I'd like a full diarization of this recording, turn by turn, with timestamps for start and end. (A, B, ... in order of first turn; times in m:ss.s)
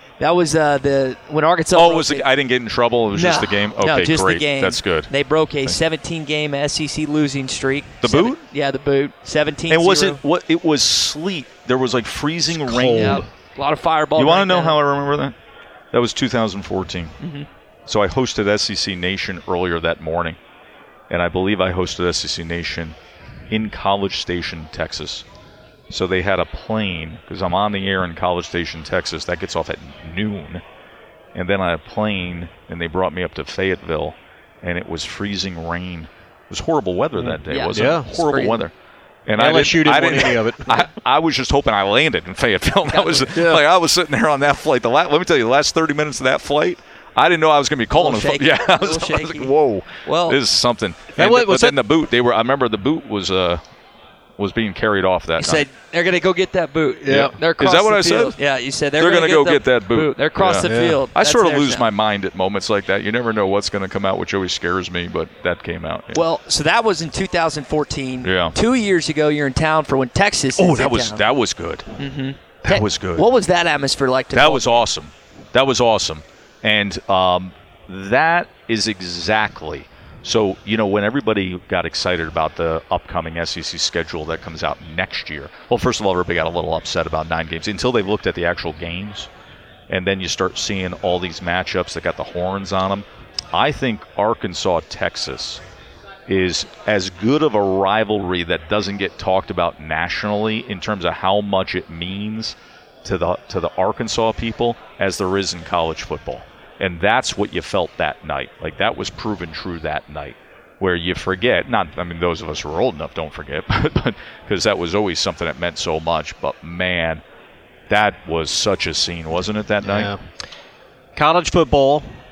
0:00.2-0:02.3 A
0:01.7-0:05.1 B
0:03.1-0:10.2 A
0:08.0-0:08.4 B
0:09.7-0:13.2 B
0:12.6-0:13.0 C
0:12.9-0:14.8 A
0:14.2-0:15.4 B
0:15.9-0:17.1 B
0:17.2-0:17.5 A
0:17.9-0:20.4 B
0:21.1-0:23.0 B
0:23.5-0:25.2 B
0:25.9-0:30.6 B
0:31.3-0:38.7 B
0:37.5-0:38.7 A
0:37.8-0:38.0 C
0:39.3-0:53.6 B
0:39.4-0:40.6 C
0:42.9-0:43.4 A
0:47.9-0:49.5 A
0:50.0-0:50.4 A
0:51.2-0:51.7 C
0:54.4-0:55.6 B
0:55.4-1:01.9 A
0:57.1-0:58.4 B
0:59.0-1:06.2 B
1:00.7-1:01.0 C
1:06.1-1:11.2 A
1:08.2-1:08.5 B
1:10.6-1:11.9 B
1:12.0-1:14.8 A
1:12.6-1:13.2 B
1:14.3-1:29.3 B
1:29.9-1:35.6 B
1:36.3-1:57.2 B
1:57.9-2:00.1 B
1:59.8-2:00.1 C
2:01.2-2:02.0 C